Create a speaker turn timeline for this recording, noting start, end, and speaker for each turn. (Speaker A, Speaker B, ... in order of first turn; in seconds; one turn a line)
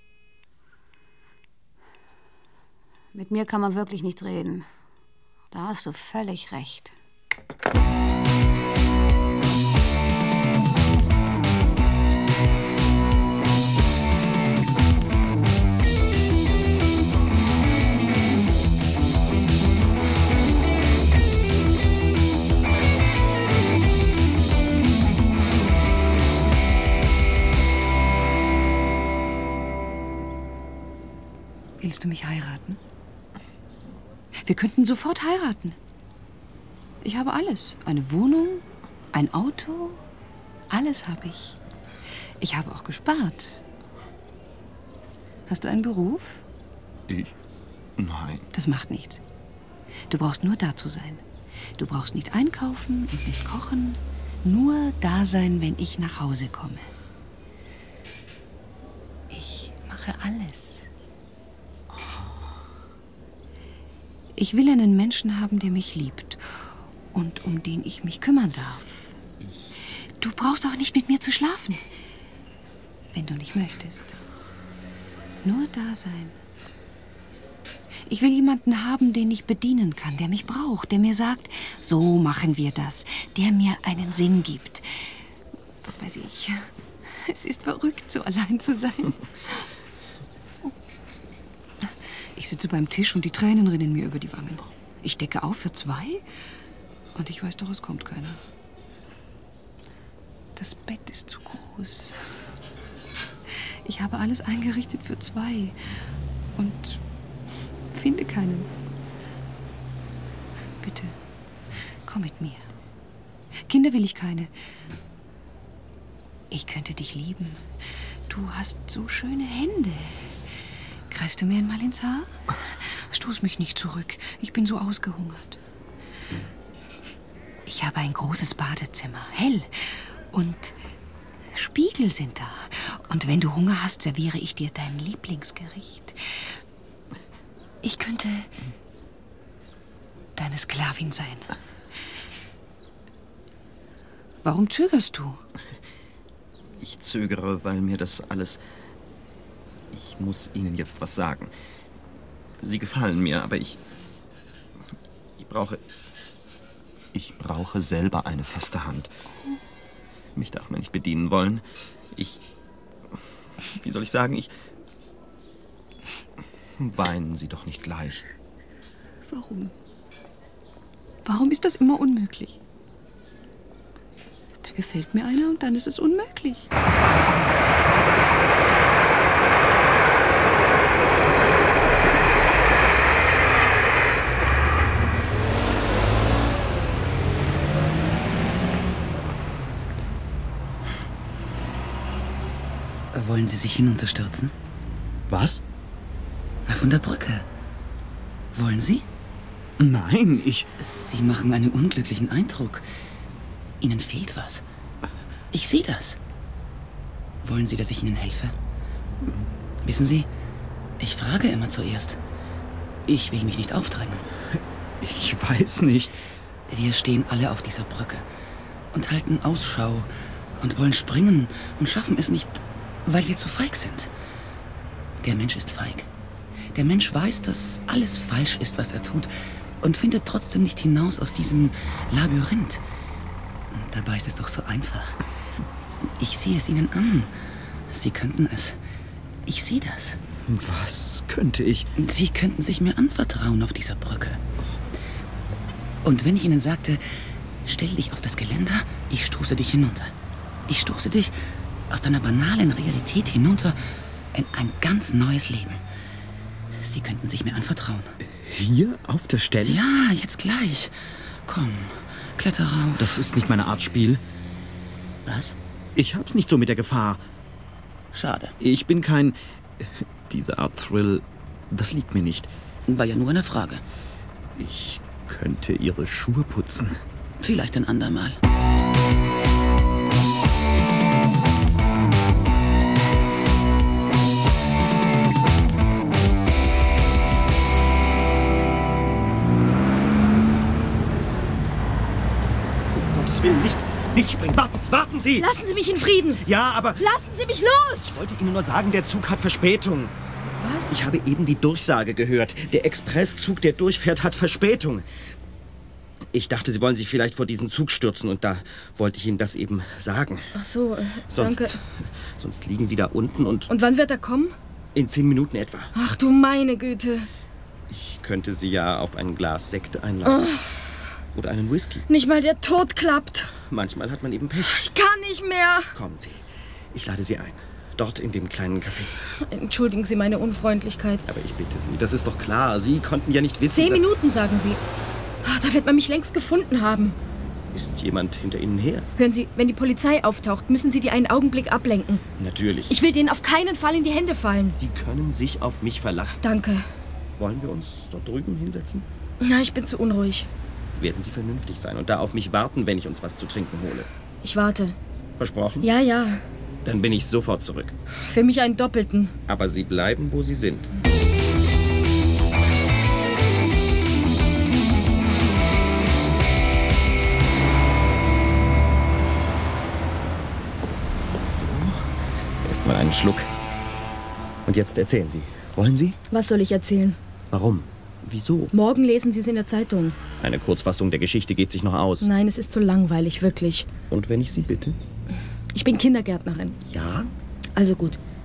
Speaker A: 3.1-4.7
Speaker A: 5.5-6.9
Speaker B: 31.8-32.8
Speaker B: 34.4-35.8
Speaker B: 37.0-40.0
Speaker B: 40.7-41.6
Speaker B: 42.4-43.6
Speaker B: 45.5-46.4
Speaker C: 48.0-48.5
Speaker B: 48.5-49.2
Speaker B: 50.1-51.2
Speaker B: 51.8-56.8
Speaker B: 59.3-60.9
Speaker C: 61.9-62.4
Speaker B: 64.3-66.4
Speaker B: 67.1-69.2
Speaker B: 70.2-71.8
Speaker B: 73.1-74.2
Speaker B: 75.4-76.3
Speaker B: 78.1-84.8
Speaker B: 85.8-86.7
Speaker B: 87.2-89.7
Speaker B: 91.8-96.2
Speaker B: 97.2-98.4
Speaker B: 100.6-102.2
Speaker B: 103.8-105.8
Speaker B: 106.6-107.0
Speaker B: 107.9-108.7
Speaker B: 110.8-111.2
Speaker B: 112.1-112.7
Speaker B: 113.7-114.5
Speaker B: 116.5-117.6
Speaker B: 118.3-120.4
Speaker B: 121.1-125.6
Speaker B: 127.7-129.7
Speaker B: 130.3-130.8
Speaker B: 131.5-136.2
Speaker B: 137.8-138.5
Speaker B: 140.4-141.6
Speaker B: 144.4-145.4
Speaker C: 146.8-148.6
Speaker C: 149.9-151.5
Speaker C: 152.6-153.8
Speaker C: 155.4-155.8
Speaker C: 157.1-159.1
Speaker C: 160.3-162.4
Speaker C: 163.8-164.5
Speaker C: 166.8-168.2
Speaker B: 169.3-169.7
Speaker B: 171.2-172.6
Speaker B: 174.6-176.7
Speaker D: 193.1-194.5
Speaker C: 195.3-195.6
Speaker D: 196.7-197.5
Speaker D: 198.5-199.1
Speaker C: 199.8-200.7
Speaker D: 200.8-202.8
Speaker D: 203.8-204.6
Speaker D: 205.5-206.2
Speaker D: 207.4-208.6
Speaker D: 209.8-210.3
Speaker D: 211.0-212.2
Speaker D: 213.1-214.2
Speaker C: 215.0-216.2
Speaker D: 216.7-218.2
Speaker D: 218.9-224.1
Speaker D: 225.2-226.1
Speaker D: 226.7-232.8
Speaker D: 233.7-235.2
Speaker D: 236.2-237.3
Speaker D: 237.9-238.8
Speaker D: 239.5-240.2
Speaker C: 240.5-241.9
Speaker D: 242.0-244.4
Speaker D: 246.0-247.0
Speaker D: 247.7-250.1
Speaker D: 250.7-251.3
Speaker D: 251.9-253.8
Speaker D: 254.3-255.8
Speaker D: 256.8-258.1
Speaker C: 258.3-259.8
Speaker D: 259.6-263.3
Speaker C: 263.0-264.2
Speaker D: 265.3-265.6
Speaker C: 266.0-267.2
Speaker D: 268.1-268.5
Speaker C: 268.6-272.5
Speaker D: 272.9-273.8
Speaker C: 274.6-277.0
Speaker D: 277.4-278.4
Speaker C: 292.9-295.5
Speaker E: 295.4-296.5
Speaker C: 296.4-297.0
Speaker E: 297.0-298.2
Speaker C: 298.0-300.1
Speaker E: 300.6-300.9
Speaker C: 300.9-305.1
Speaker C: 306.3-310.4
Speaker E: 310.5-311.8
Speaker C: 311.3-313.7
Speaker E: 313.7-314.6
Speaker C: 314.9-315.9
Speaker E: 315.9-317.3
Speaker C: 317.9-320.5
Speaker E: 320.2-320.6
Speaker C: 321.3-322.1
Speaker E: 322.1-323.5
Speaker C: 323.5-324.8
Speaker E: 324.6-325.9
Speaker C: 325.9-329.2
Speaker E: 329.4-331.2
Speaker C: 331.3-334.1
Speaker E: 333.7-334.8
Speaker E: 335.4-337.2
Speaker C: 337.7-339.1
Speaker E: 339.2-342.2
Speaker C: 342.4-342.9
Speaker E: 342.9-344.8
Speaker C: 344.8-346.4
Speaker E: 346.4-346.8
Speaker C: 347.4-349.1
Speaker E: 349.4-350.5
Speaker C: 351.0-354.1
Speaker E: 354.4-355.0
Speaker C: 355.4-355.9
Speaker E: 355.8-356.4
Speaker C: 356.9-357.9
Speaker E: 358.3-359.4
Speaker C: 359.5-360.9
Speaker C: 371.3-372.1
Speaker C: 372.6-373.5
Speaker C: 374.7-376.2
Speaker E: 376.3-377.2
Speaker C: 377.5-378.7
Speaker E: 378.7-380.2
Speaker C: 380.4-382.3
Speaker E: 382.2-383.9
Speaker C: 384.1-385.0
Speaker E: 385.7-386.8
Speaker C: 386.9-387.3
Speaker E: 387.8-388.2